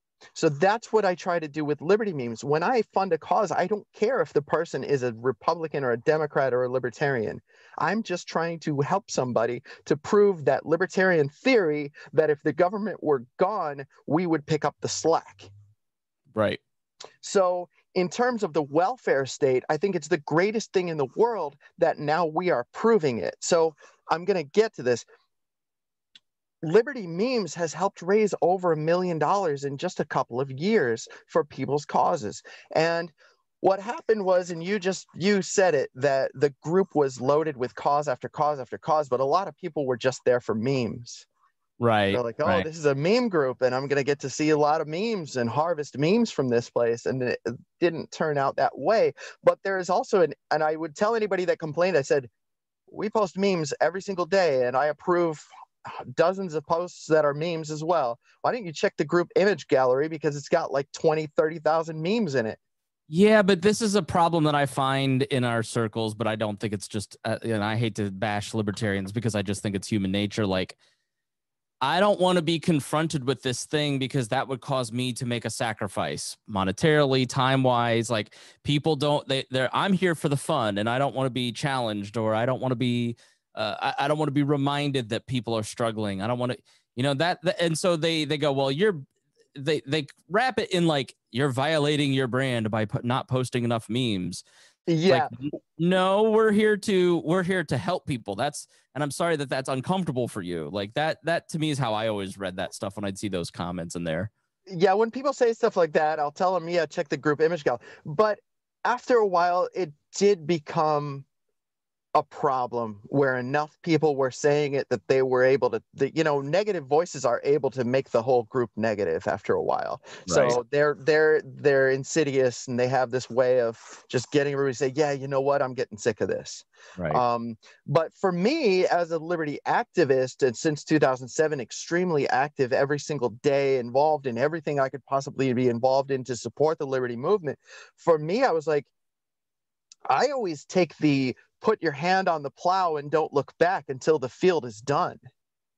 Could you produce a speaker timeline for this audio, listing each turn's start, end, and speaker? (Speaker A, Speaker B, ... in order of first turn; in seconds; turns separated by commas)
Speaker A: 0.3-15.5, Speaker B: 16.3-16.6, Speaker A: 17.2-25.1, Speaker A: 26.6-41.3, Speaker B: 41.8-42.7, Speaker A: 42.1-52.3, Speaker A: 52.9-62.6, Speaker B: 63.1-70.8, Speaker B: 71.8-94.5, Speaker A: 94.9-95.3, Speaker B: 95.1-104.3, Speaker A: 104.7-111.3, Speaker A: 112.2-138.9, Speaker B: 120.3-120.6, Speaker A: 140.1-145.2